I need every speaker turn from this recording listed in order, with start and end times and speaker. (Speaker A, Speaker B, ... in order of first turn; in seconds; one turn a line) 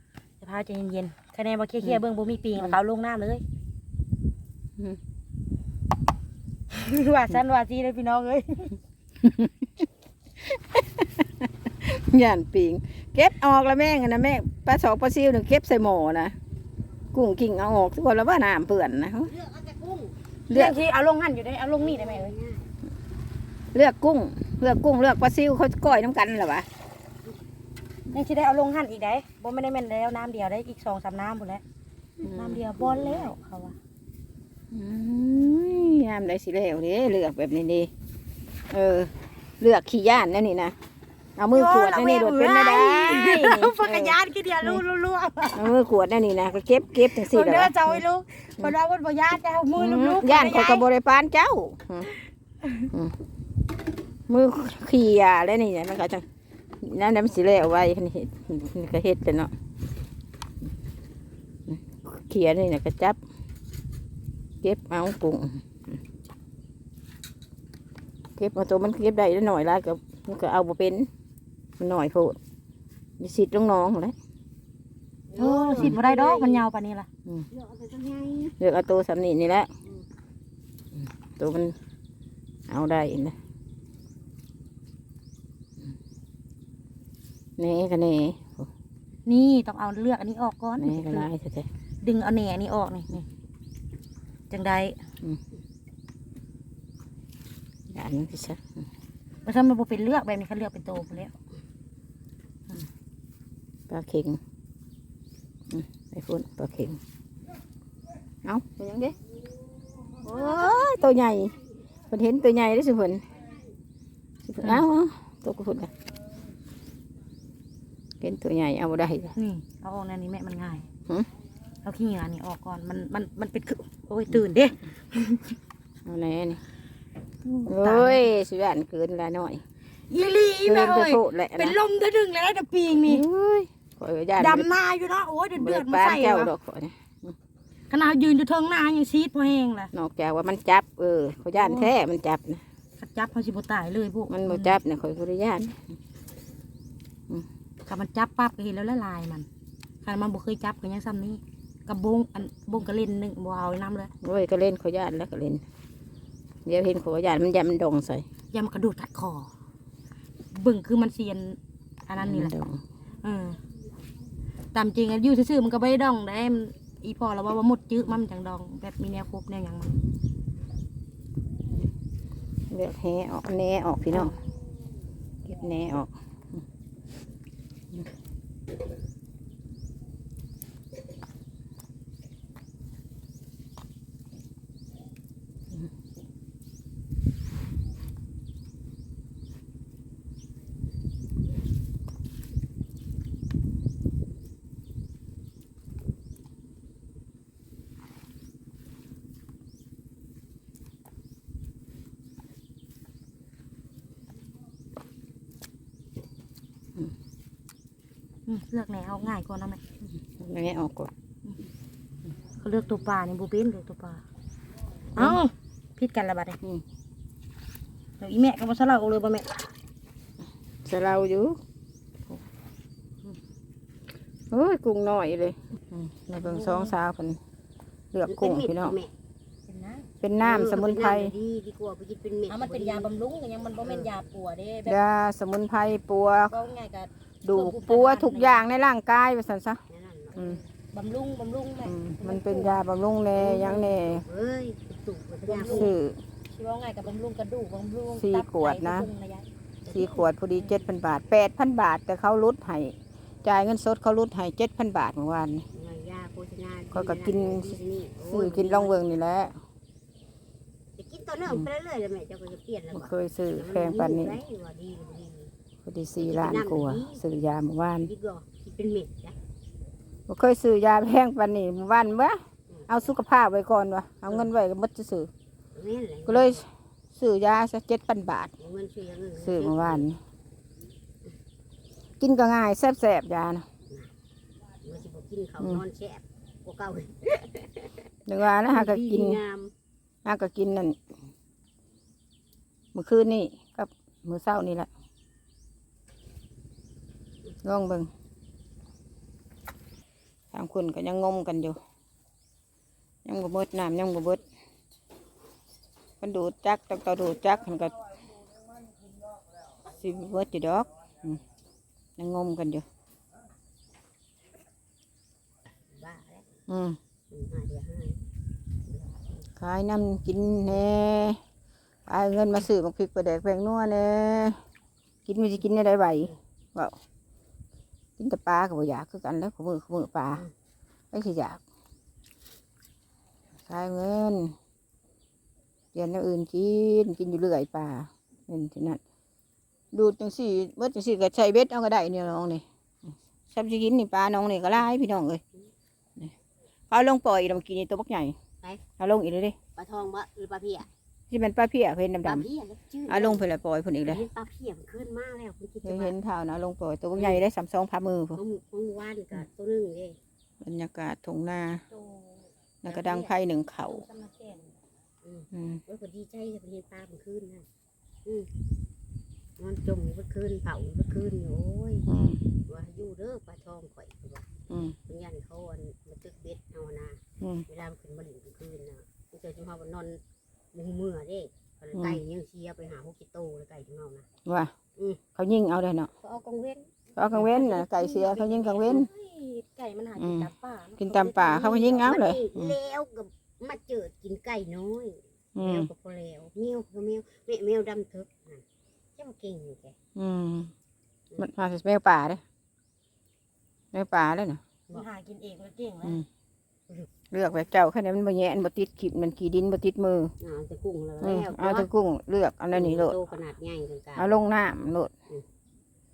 Speaker A: 0.4-3.4
Speaker A: 6.7-8.7
Speaker B: 9.2-9.7
Speaker B: 10.5-16.4
Speaker B: 17.1-19.3
Speaker C: 19.2-20.1
Speaker B: 20.5-20.8
Speaker A: 20.5-22.3
Speaker C: 21.8-22.7
Speaker B: 23.7-26.7
Speaker A: 28.1-31.6
Speaker A: 32.2-33.8
Speaker B: 32.3-32.6
Speaker C: 32.8-33.3
Speaker B: 34.7-37.9
Speaker B: 38.7-40.8
Speaker B: 41.4-44.8
Speaker A: 41.5-45.7
Speaker B: 45.5-48.0
Speaker A: 47.0-50.9
Speaker B: 49.8-52.1
Speaker B: 54.3-56.2
Speaker B: 56.8-59.5
Speaker B: 61.7-63.2
Speaker B: 64.6-65.8
Speaker B: 68.4-71.1
Speaker B: 71.8-72.4
Speaker B: 73.2-74.1
Speaker C: 75.3-76.7
Speaker A: 75.4-77.1
Speaker C: 77.5-78.6
Speaker B: 78.6-79.7
Speaker B: 81.0-81.8
Speaker B: 82.7-83.4
Speaker B: 87.6-88.7
Speaker A: 89.3-91.3
Speaker B: 90.8-91.7
Speaker A: 92.0-93.3
Speaker A: 94.5-95.0
Speaker B: 97.9-98.7
Speaker A: 99.5-101.3
Speaker B: 103.9-104.4
Speaker B: 105.7-107.0
Speaker B: 108.5-109.2
Speaker B: 110.2-111.6
Speaker B: 112.1-113.2
Speaker B: 114.5-115.9
Speaker B: 118.2-119.3
Speaker A: 119.4-120.9
Speaker A: 121.8-125.5
Speaker B: 126.0-126.6
Speaker B: 127.5-129.6
Speaker A: 127.7-128.3
Speaker A: 130.1-133.3
Speaker B: 130.7-131.8
Speaker B: 133.1-134.7
Speaker A: 134.4-136.5
Speaker B: 135.6-137.3
Speaker A: 137.9-139.9
Speaker B: 139.9-142.6
Speaker A: 141.5-141.9
Speaker A: 143.0-144.8
Speaker B: 144.3-145.8
Speaker A: 147.9-149.5
Speaker A: 150.0-154.1
Speaker B: 154.2-155.6
Speaker B: 156.7-158.3
Speaker A: 158.5-159.5
Speaker A: 160.5-162.5
Speaker B: 162.2-162.8
Speaker A: 163.2-163.6
Speaker A: 164.7-169.9
Speaker B: 172.7-174.3
Speaker B: 175.5-176.1
Speaker A: 208.5-209.8
Speaker B: 210.2-211.1
Speaker A: 212.6-214.2
Speaker A: 215.2-216.6
Speaker A: 218.2-219.7
Speaker B: 220.9-221.6
Speaker B: 224.5-227.4
Speaker A: 226.3-226.9
Speaker B: 228.1-229.0
Speaker C: 228.3-229.1
Speaker A: 229.7-230.1
Speaker B: 230.2-231.3
Speaker C: 230.4-233.1
Speaker A: 232.5-235.0
Speaker C: 233.8-234.1
Speaker B: 234.9-236.6
Speaker A: 236.5-238.7
Speaker B: 237.4-239.8
Speaker C: 239.9-240.7
Speaker B: 240.3-240.6
Speaker A: 240.9-242.8
Speaker B: 241.8-244.2
Speaker C: 243.4-245.9
Speaker A: 245.5-245.9
Speaker B: 245.7-246.2
Speaker A: 246.5-249.5
Speaker B: 248.2-249.1
Speaker C: 249.9-250.3
Speaker B: 249.9-255.7
Speaker C: 255.7-259.0
Speaker B: 256.9-259.6
Speaker C: 261.0-265.5
Speaker B: 262.9-264.4
Speaker B: 265.9-268.1
Speaker C: 266.2-267.2
Speaker C: 268.0-269.4
Speaker B: 270.3-272.4
Speaker B: 272.9-275.3
Speaker C: 275.7-276.6
Speaker B: 276.3-278.5
Speaker C: 278.6-280.1
Speaker B: 279.4-280.2
Speaker B: 282.2-283.7
Speaker C: 284.8-287.9
Speaker B: 288.3-289.4
Speaker C: 288.7-289.7
Speaker B: 290.2-291.0
Speaker B: 292.9-294.9
Speaker B: 297.6-298.1
Speaker B: 300.5-301.8
Speaker B: 303.2-304.4
Speaker B: 306.2-308.0
Speaker B: 310.0-311.4
Speaker B: 312.2-312.9
Speaker C: 315.9-316.5
Speaker B: 316.7-317.0
Speaker C: 317.3-318.2
Speaker C: 318.9-319.5
Speaker B: 319.6-321.4
Speaker B: 322.1-324.6
Speaker B: 325.3-326.9
Speaker B: 328.2-330.4
Speaker B: 331.1-331.6
Speaker B: 333.7-334.6
Speaker B: 335.9-339.0
Speaker B: 339.9-342.6
Speaker B: 343.5-345.4
Speaker B: 346.9-348.4
Speaker B: 349.0-349.6
Speaker C: 349.8-350.9
Speaker B: 351.3-352.5
Speaker C: 352.2-353.5
Speaker B: 353.1-354.3
Speaker C: 354.1-356.1
Speaker B: 355.8-358.4
Speaker C: 357.2-357.4
Speaker C: 358.4-360.2
Speaker B: 360.6-361.8
Speaker A: 361.9-362.3
Speaker B: 362.8-364.1
Speaker C: 362.9-363.3
Speaker A: 363.9-364.7
Speaker C: 365.2-367.7
Speaker B: 365.5-365.8
Speaker C: 369.6-372.1
Speaker B: 372.1-372.4
Speaker C: 372.7-374.5
Speaker B: 374.7-375.0
Speaker C: 375.0-380.2
Speaker C: 380.7-384.3
Speaker B: 381.9-382.2
Speaker B: 384.4-384.7
Speaker C: 385.0-385.2
Speaker B: 385.4-386.1
Speaker C: 386.2-387.0
Speaker B: 387.2-389.1
Speaker A: 387.3-391.9
Speaker C: 388.7-389.0
Speaker B: 390.2-392.8
Speaker C: 391.8-398.6
Speaker B: 395.6-395.9
Speaker C: 399.2-400.0
Speaker B: 400.2-400.7
Speaker B: 401.4-402.4
Speaker B: 403.9-404.6
Speaker A: 404.9-406.2
Speaker B: 407.3-410.3
Speaker C: 410.4-411.9
Speaker B: 411.2-413.2
Speaker C: 412.7-414.4
Speaker B: 414.2-415.1